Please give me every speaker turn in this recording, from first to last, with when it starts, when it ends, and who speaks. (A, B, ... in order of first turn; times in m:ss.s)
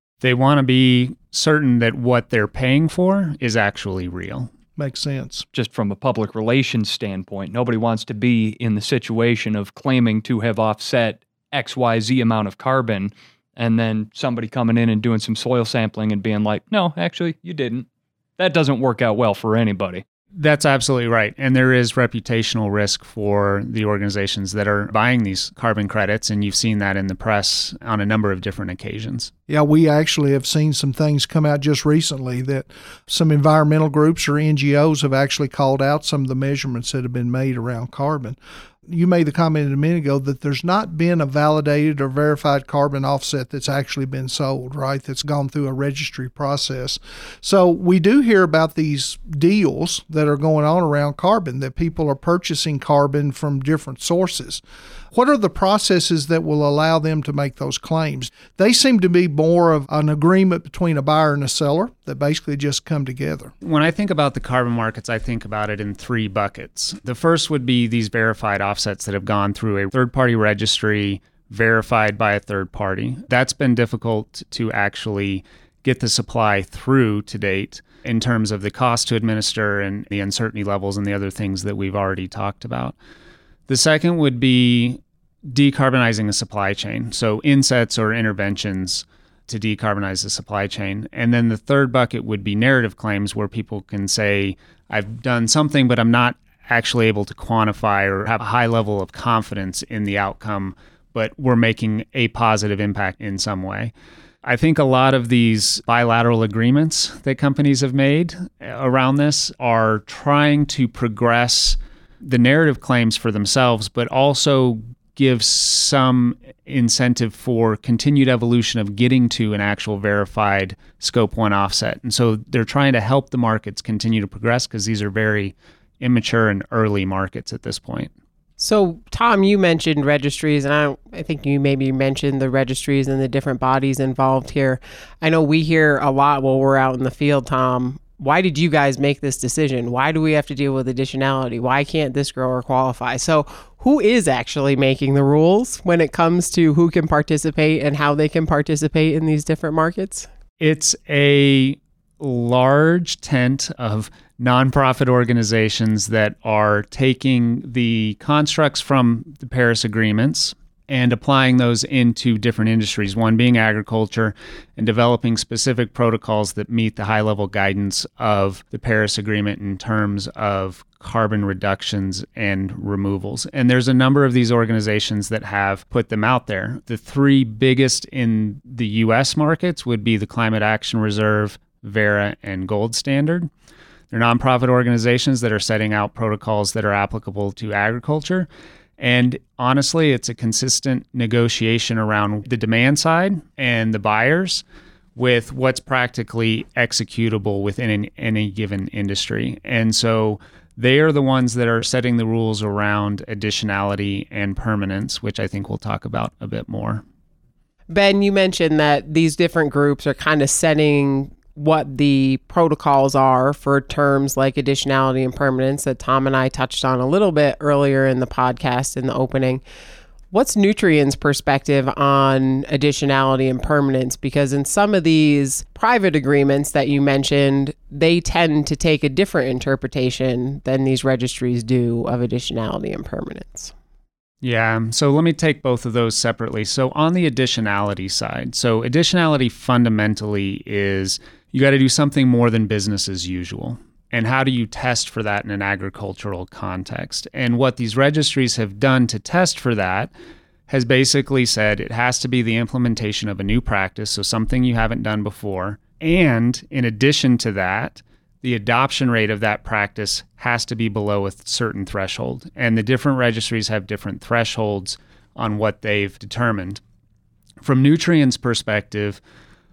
0:00.2-0:04.5 A
0:04.8-0:05.5 B
0:05.5-0:17.9 C
0:18.4-0:20.0 C
0:20.4-0:29.3 A
0:29.5-1:03.5 B
1:03.6-1:23.0 A
1:23.7-1:43.9 A
1:44.4-2:08.1 A
2:08.6-2:30.3 D
2:30.6-3:03.5 A
3:04.1-3:08.5 A
3:09.0-3:14.6 A
3:15.2-3:27.0 A
3:27.9-3:39.6 D
3:40.3-3:53.7 D
3:54.4-4:10.1 A
4:10.7-4:26.8 A
4:27.6-4:29.2 A